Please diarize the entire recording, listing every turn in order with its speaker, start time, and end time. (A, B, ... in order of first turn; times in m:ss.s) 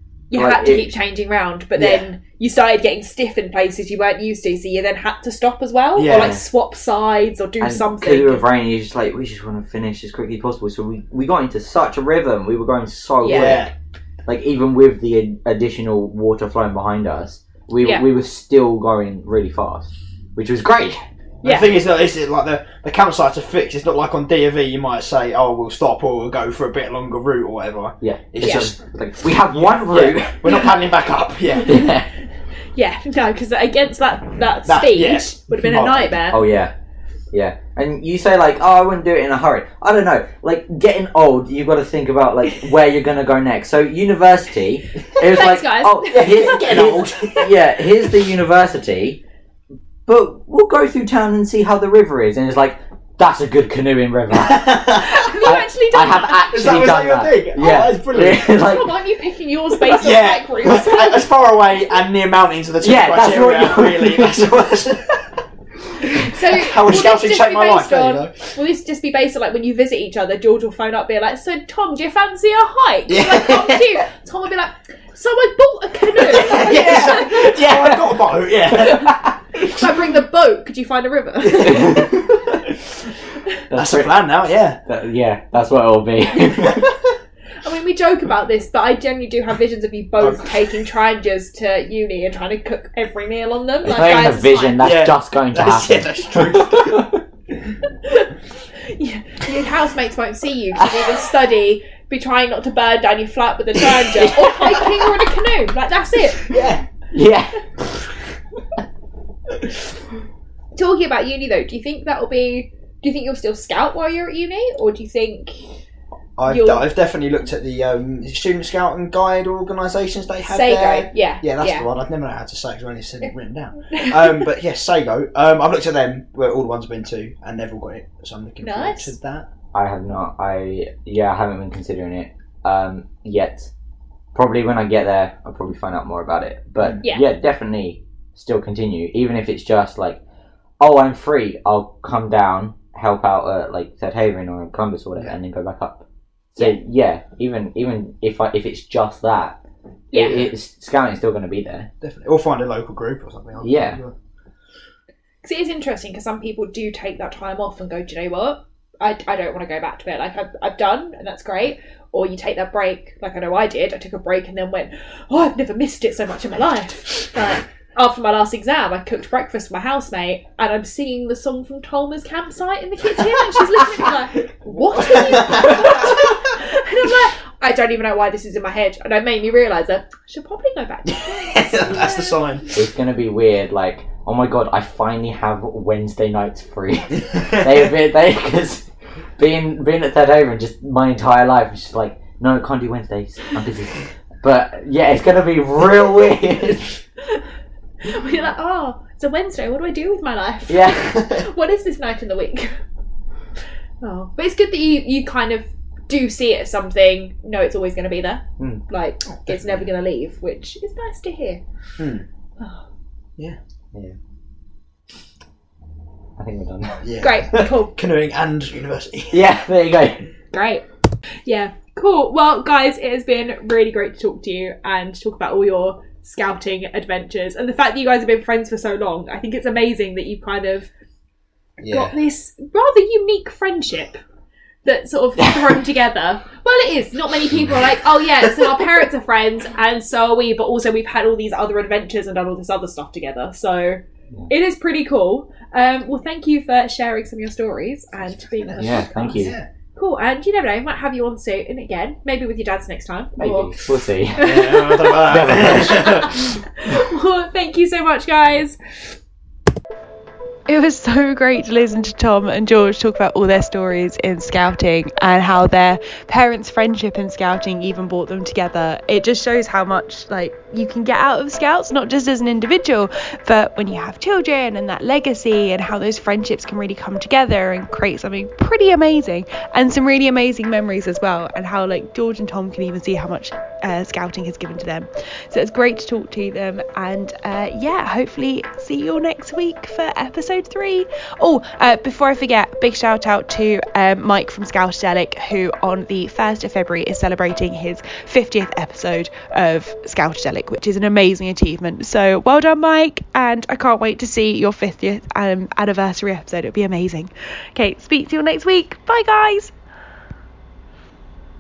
0:00.3-0:08.4 A
0:00.3-0:00.9 B
0:01.8-0:02.0 C
0:06.0-0:06.4 C
0:06.1-0:06.4 B
0:07.6-0:13.7 B
0:13.2-0:13.6 A
0:13.3-0:13.7 C
0:14.3-0:21.0 B
0:21.4-0:21.8 A
0:21.4-0:28.8 C
0:28.0-0:30.7 B
0:28.4-0:28.7 A
0:29.5-0:31.8 C
0:31.6-0:32.1 B
0:32.7-0:36.4 A
0:34.7-0:36.2 C
0:36.3-0:36.7 B
0:37.3-0:49.2 B
0:45.2-0:46.8 A
0:46.1-0:47.5 C
0:50.1-0:58.9 B
0:54.4-0:55.1 C
0:54.8-0:56.8 A
0:56.5-0:58.5 C
0:58.5-1:01.3 A
0:59.8-1:05.3 C
1:02.8-1:04.6 B
1:06.2-1:08.5 C
1:06.3-1:17.5 A
1:13.1-1:13.9 C
1:16.2-1:19.9 C
1:16.5-1:18.2 B
1:18.7-1:19.4 B
1:19.6-1:22.4 A
1:21.6-1:22.2 B
1:23.7-1:24.2 B
1:23.7-1:24.8 C
1:24.9-1:26.9 B
1:27.6-1:34.8 A
1:30.2-1:30.5 C
1:33.8-1:37.2 B
1:34.8-1:37.0 C
1:38.0-1:46.5 A
1:46.4-1:46.9 C
1:47.1-1:48.0 B
1:50.8-1:55.6 A
1:56.4-2:09.5 C
1:56.5-1:56.9 A
2:00.4-2:01.9 A
2:03.9-2:04.5 A
2:08.6-2:09.2 A
2:09.7-2:13.7 B
2:14.4-2:20.2 B
2:16.8-2:17.0 C
2:20.8-2:29.6 B
2:30.1-2:30.5 A
2:30.1-2:31.9 B
2:32.0-2:34.1 C
2:33.6-2:34.0 B
2:35.4-3:02.7 A
2:54.9-2:56.2 C
3:01.1-3:02.7 C
3:02.7-3:17.0 B
3:18.0-3:22.7 A
3:20.7-3:21.4 B
3:24.0-3:31.6 A
3:29.5-3:29.7 C
3:32.0-3:32.2 C
3:36.4-3:37.1 B
3:37.0-3:39.4 C
3:37.2-3:38.0 A
3:39.3-3:40.2 B
3:40.5-3:40.8 A
3:41.4-3:50.9 A
3:51.8-3:52.1 C
3:51.9-3:54.2 A
3:54.8-4:18.8 A
4:08.3-4:09.7 C
4:08.8-4:09.5 B
4:13.4-4:16.4 B
4:14.4-4:16.3 C
4:20.7-5:09.7 D